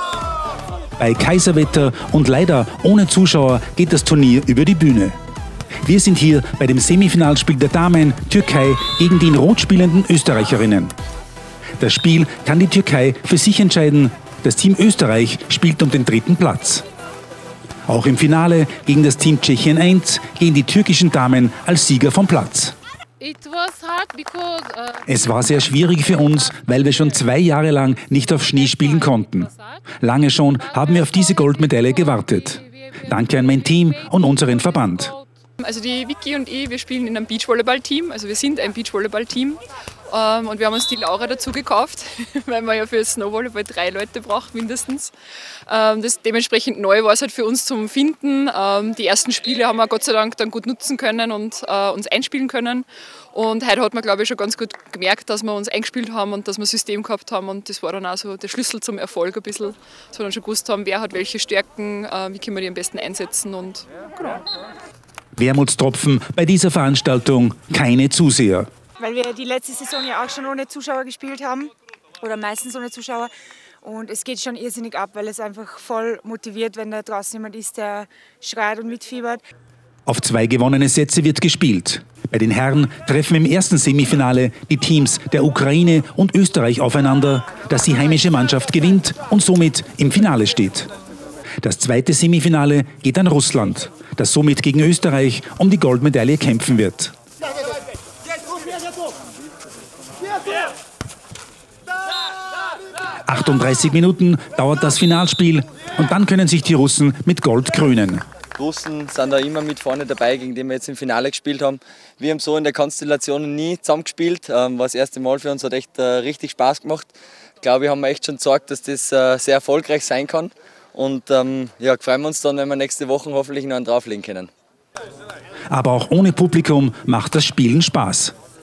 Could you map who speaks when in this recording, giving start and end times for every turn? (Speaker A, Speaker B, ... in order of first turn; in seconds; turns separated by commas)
Speaker A: 1.0-5.2, Speaker A: 5.8-10.9, Speaker A: 11.8-16.8, Speaker A: 17.9-22.8, Speaker A: 25.1-35.2, Speaker B: 35.6-45.1, Speaker B: 45.7-64.4, Speaker A: 65.4-68.7, Speaker C: 69.0-73.3, Speaker C: 73.8-79.4, Speaker A: 80.1-90.9, Speaker A: 91.6-97.1, Speaker A: 103.3-108.2, Speaker D: 108.5-124.5, Speaker A: 125.7-128.3